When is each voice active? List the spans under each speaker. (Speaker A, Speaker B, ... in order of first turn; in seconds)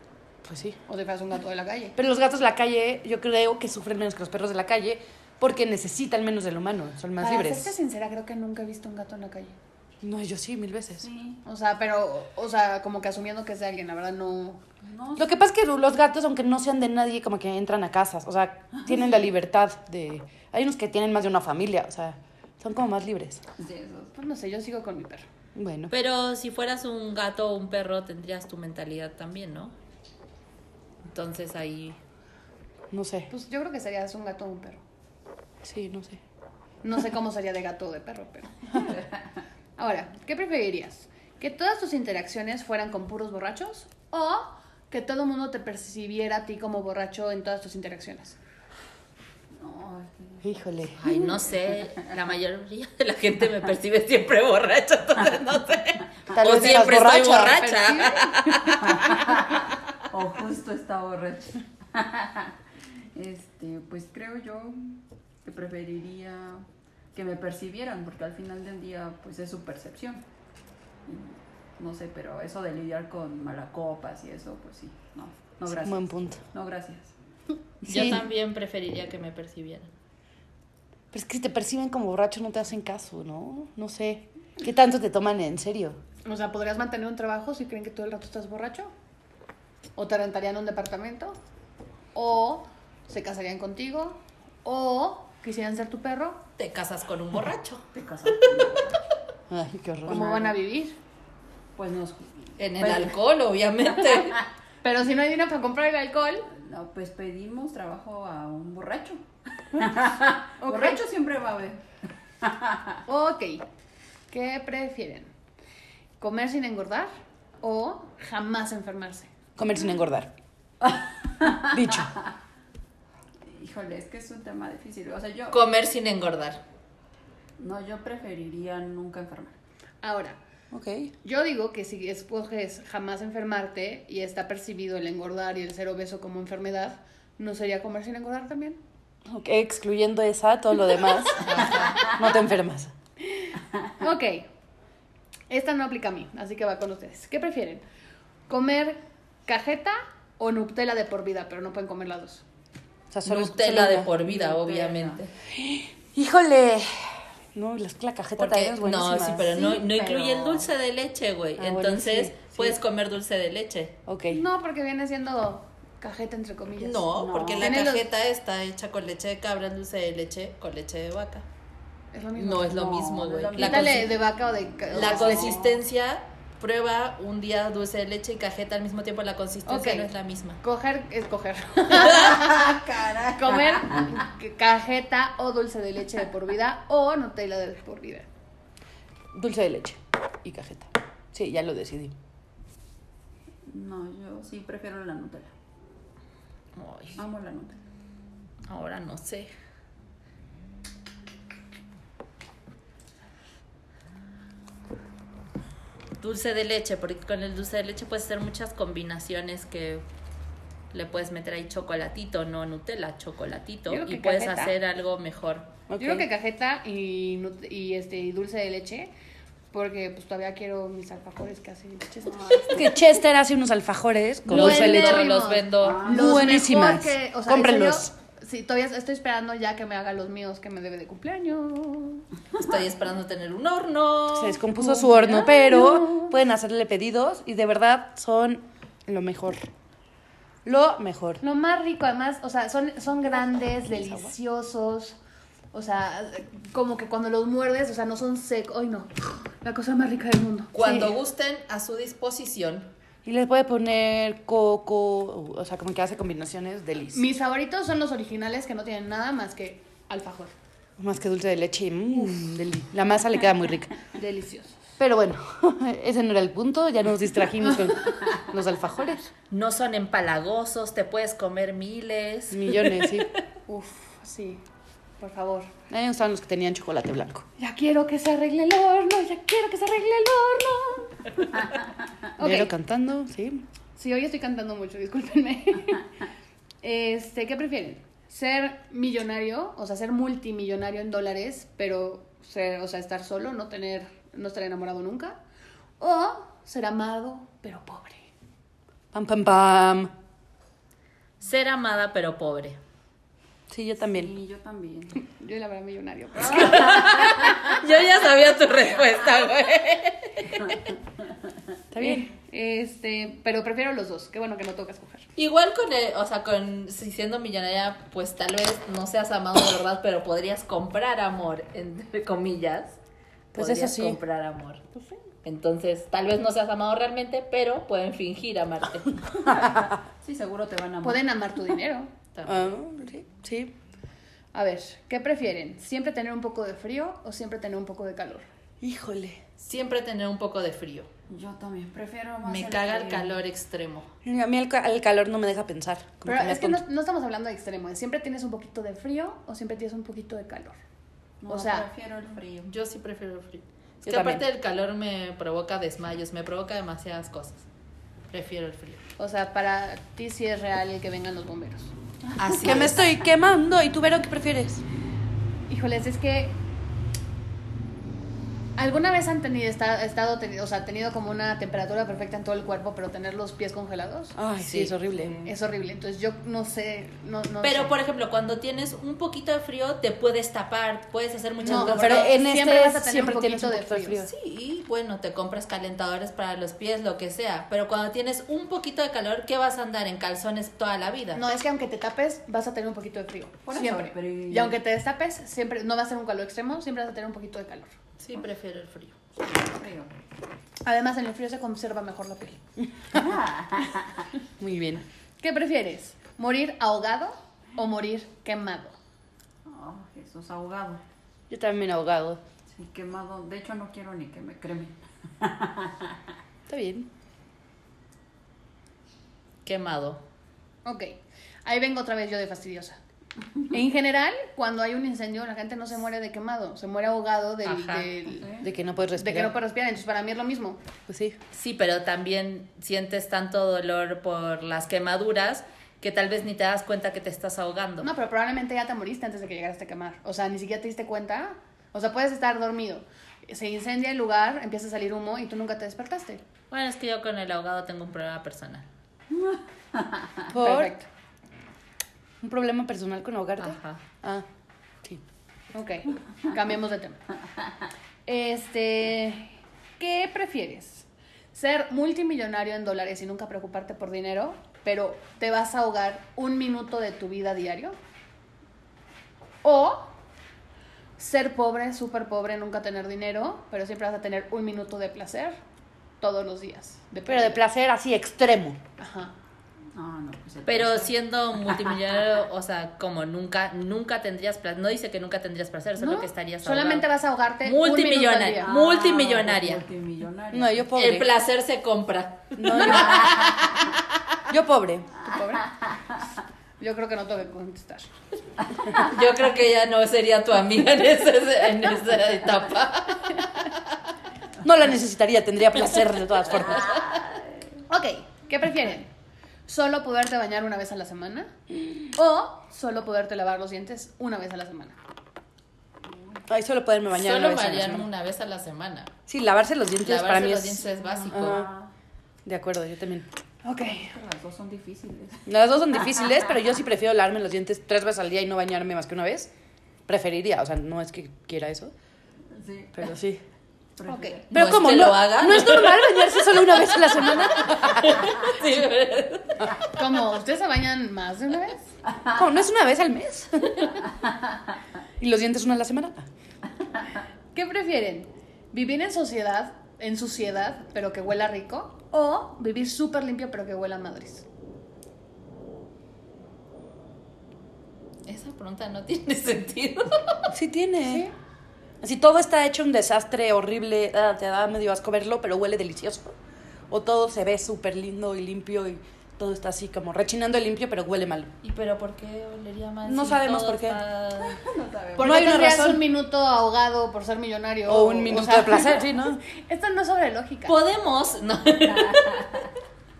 Speaker A: 0.4-0.8, 1.9-7.7, 10.0-11.1, 15.2-23.4, 25.5-25.9, 32.9-33.3, 35.6-36.2, 50.4-51.0, 56.3-57.6, 75.7-76.4, 77.8-78.2, 81.1-86.0, 99.5-100.3, 119.6-120.3, 121.6-122.1, 130.7-131.1, 139.3-142.9, 153.1-154.1, 155.5-159.6, 161.6-162.8, 164.1-164.4, 189.3-192.1, 215.9-216.2, 222.7-225.3, 226.0-228.1, 234.3-239.6, 240.6-241.4, 243.9-244.3, 253.2-257.2, 261.0-263.9, 265.0-269.3, 272.5-273.3, 275.9-277.4, 282.4-283.6, 299.1-300.1, 303.7-304.3, 311.9-312.3, 323.5-324.2, 329.4-330.0, 332.4-333.7, 338.8-339.4, 344.2-346.8, 354.0-354.4, 362.6-364.8, 374.4-375.3, 381.6-384.3, 404.6-405.0, 411.5-412.4, 416.7-417.1, 428.6-429.5, 431.1-431.4, 450.5-450.9, 452.4-454.4, 477.3-478.8, 490.5-491.3, 492.6-493.4, 494.5-495.1, 504.6-507.0, 516.5-518.1, 519.3-521.7, 522.4-523.3, 525.5-529.5, 530.1-531.9, 532.9-533.4, 534.5-538.3, 542.3-544.0, 545.2-546.3, 560.5-561.3, 562.0-566.4, 566.9-571.5, 573.0-574.0, 575.2-576.0, 577.9-579.4
Speaker B: 0.9-1.9, 7.2-9.5, 11.4-14.6, 24.1-25.2, 33.3-34.8, 36.8-38.5, 39.8-48.4, 56.5-58.3, 86.2-88.9, 90.0-91.4, 92.1-96.4, 100.1-101.0, 104.8-106.5, 110.6-111.0, 113.1-113.6, 114.3-115.3, 116.2-117.1, 117.6-119.3, 130.0-130.4, 131.2-138.8, 143.3-144.5, 145.5-147.8, 148.5-152.4, 164.3-167.1, 167.6-168.1, 172.1-172.8, 173.5-175.6, 179.7-182.8, 183.3-188.3, 213.9-214.8, 216.0-219.1, 219.7-222.9, 224.5-232.2, 234.8-236.3, 241.4-245.2, 245.7-251.1, 257.1-260.5, 264.1-264.8, 273.7-274.6, 275.2-275.7, 277.6-281.3, 282.4-282.7, 283.9-286.1, 286.8-295.4, 296.0-298.3, 305.2-307.8, 312.0-315.2, 331.0-332.1, 334.5-338.5, 346.2-350.8, 351.5-351.9, 359.2-361.9, 365.7-366.6, 368.8-374.4, 375.4-377.9, 381.6-384.2, 391.3-397.9, 400.8-402.6, 405.4-408.9, 420.8-423.0, 423.7-428.6, 429.1-430.8, 438.0-446.4, 450.5-451.1, 455.7-457.2, 458.2-468.0, 469.6-470.1, 471.2-475.6, 476.2-477.6, 479.0-479.3, 486.0-488.7, 495.2-495.7, 496.8-498.1, 507.9-509.1, 509.7-511.5, 512.1-515.0, 523.6-524.1, 534.0-534.4, 539.9-541.9, 547.5-554.5, 561.0-561.3, 575.2-580.7
Speaker C: 11.0-11.4, 14.8-15.3, 23.6-24.1, 38.7-39.2, 49.5-50.5, 51.0-52.0, 58.7-62.5, 63.1-70.2, 71.0-77.1, 97.9-99.0, 100.1-100.6, 101.8-103.2, 104.0-104.4, 106.5-111.8, 112.4-113.0, 120.8-122.1, 123.4-125.7, 127.6-129.5, 141.7-142.1, 154.2-155.2, 159.4-160.7, 167.1-167.8, 172.6-175.8, 181.9-184.2, 193.7-195.5, 197.2-197.8, 222.3-222.9, 225.8-226.5, 304.0-305.2, 306.5-307.5, 329.4-331.3, 341.3-343.4, 351.4-352.7, 362.2-363.0, 375.1-375.5, 393.6-394.8, 399.4-400.1, 403.1-404.3, 409.6-411.0, 412.7-416.2, 428.3-428.7, 449.3-450.5, 479.9-482.0, 488.6-490.9, 492.8-493.9, 506.6-507.8, 516.1-516.4, 521.0-521.9, 523.9-525.4, 532.5-532.9, 534.0-534.5, 574.4-575.4, 581.9-582.7
Speaker D: 25.9-29.7, 31.0-32.0, 51.0-59.3, 77.8-79.9, 96.6-97.8, 102.6-104.4, 125.5-126.6, 141.4-142.2, 153.2-155.3, 158.4-163.9, 166.8-171.4, 172.3-174.1, 174.9-180.6, 196.8-197.2, 198.7-199.5, 206.2-210.0, 210.9-215.7, 224.5-226.1, 232.5-234.6, 250.7-252.9, 269.5-273.2, 301.4-302.8, 306.5-310.8, 315.4-323.0, 323.5-324.8, 325.4-329.2, 332.3-332.7, 339.6-341.1, 342.4-344.1, 352.7-357.6, 358.3-359.0, 362.4-363.0, 374.6-374.9, 377.6-382.3, 384.2-391.4, 398.2-399.1, 419.6-420.2, 427.6-428.1, 431.5-438.1, 446.7-448.9, 453.6-454.0, 480.6-487.1, 487.6-489.8, 490.9-493.8, 498.9-503.7, 517.1-519.1, 520.0-521.7, 534.5-539.8, 558.2-560.5, 571.6-574.6, 580.6-582.5